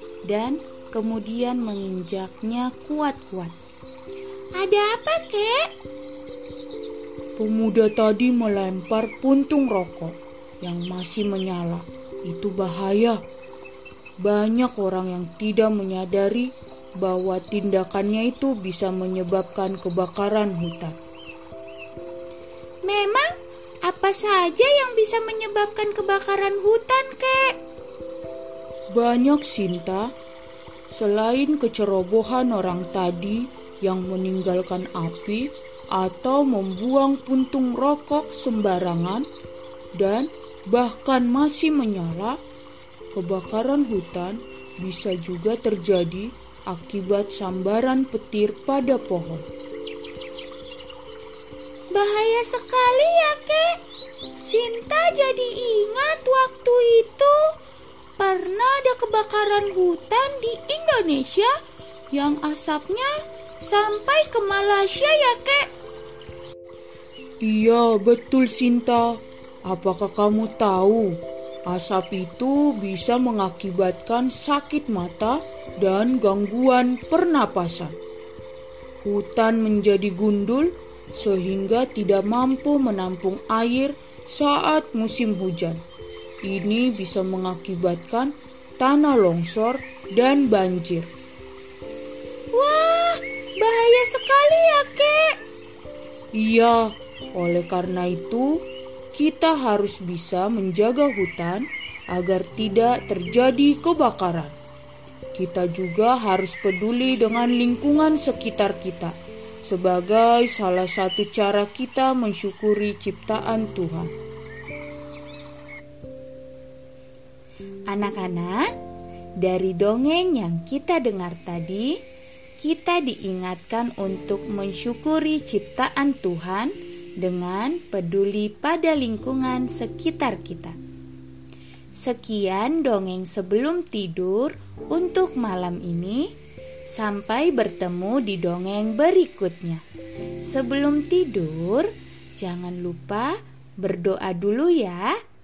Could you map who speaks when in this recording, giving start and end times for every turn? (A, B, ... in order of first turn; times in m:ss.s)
0:00.3-0:03.6 A
0:04.6-0:05.7 A
0:07.4-0:13.2 B
0:14.2-0:16.5 B
0:17.0-0:21.0 B
0:22.8-0:27.6 A
0:28.9-0:30.1 B
0:30.9-0:39.2 B
0:40.0-0:42.4 B
0:43.1-0:49.4 B
0:51.9-0:53.7 A
0:54.3-0:57.4 A
0:58.2-1:01.5 A
1:02.2-1:05.7 A
1:07.4-1:11.1 B
1:11.7-1:18.0 B
1:19.0-1:25.8 B
1:26.4-1:31.1 B
1:32.5-1:35.4 A
1:36.4-1:36.8 B
1:37.3-1:38.5 B
1:39.1-1:44.5 B
1:45.3-1:49.1 B
1:49.6-1:54.1 B
1:57.9-1:58.6 A
1:59.4-2:01.9 A
2:02.6-2:10.8 A
2:11.9-2:16.3 A
2:16.9-2:19.8 A
2:20.4-2:25.1 A